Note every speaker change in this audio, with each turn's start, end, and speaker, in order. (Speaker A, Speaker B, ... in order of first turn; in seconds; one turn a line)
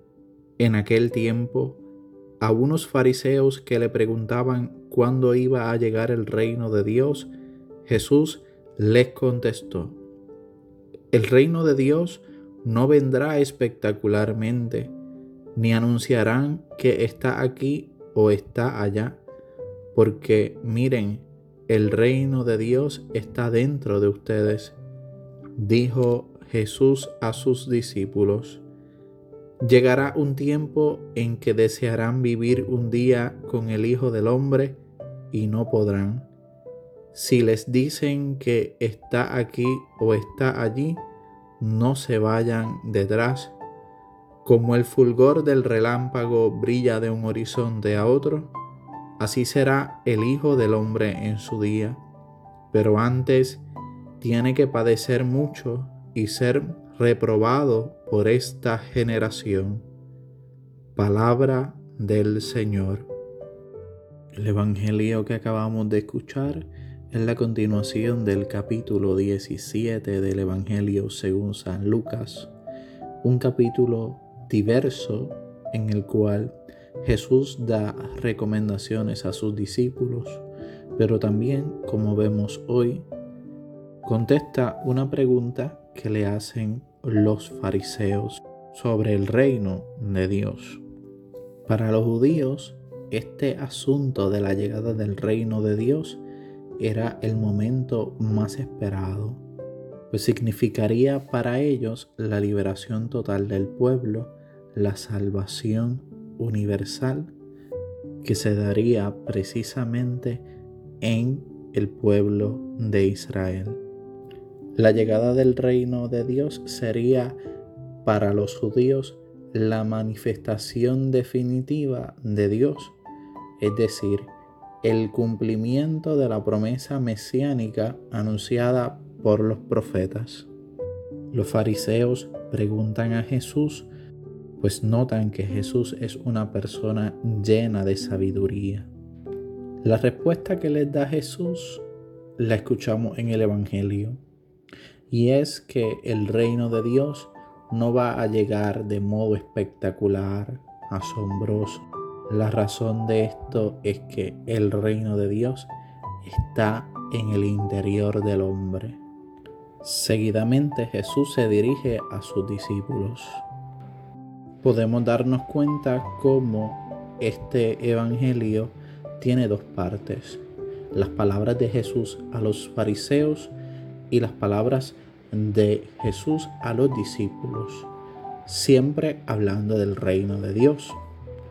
Speaker A: 0.6-1.8
Speaker A: 2.4-7.3
Speaker A: 7.8-10.0
Speaker A: 11.1-14.9
Speaker A: 15.5-19.2
Speaker A: 19.9-24.8
Speaker A: 25.6-28.6
Speaker A: 29.6-36.3
Speaker A: 37.1-41.0
Speaker A: 41.6-43.6
Speaker A: 44.4-48.5
Speaker A: 49.2-52.0
Speaker A: 52.7-53.6
Speaker A: 54.2-59.8
Speaker A: 61.0-63.1
Speaker A: 64.3-72.5
Speaker A: 73.2-80.4
Speaker A: 81.0-83.1
Speaker A: 84.0-90.8
Speaker A: 91.7-96.2
Speaker A: 96.8-99.4
Speaker A: 100.1-107.3
Speaker A: 108.2-110.5
Speaker A: 111.0-113.8
Speaker A: 114.8-117.4
Speaker A: 118.0-123.0
Speaker A: 123.6-124.3
Speaker A: 124.8-130.5
Speaker A: 131.3-133.9
Speaker A: 134.6-138.9
Speaker A: 139.8-141.8
Speaker A: 142.4-144.2
Speaker A: 145.1-155.7
Speaker A: 156.2-159.0
Speaker A: 159.8-163.4
Speaker A: 164.6-170.4
Speaker A: 170.9-173.5
Speaker A: 174.1-177.9
Speaker A: 178.4-181.0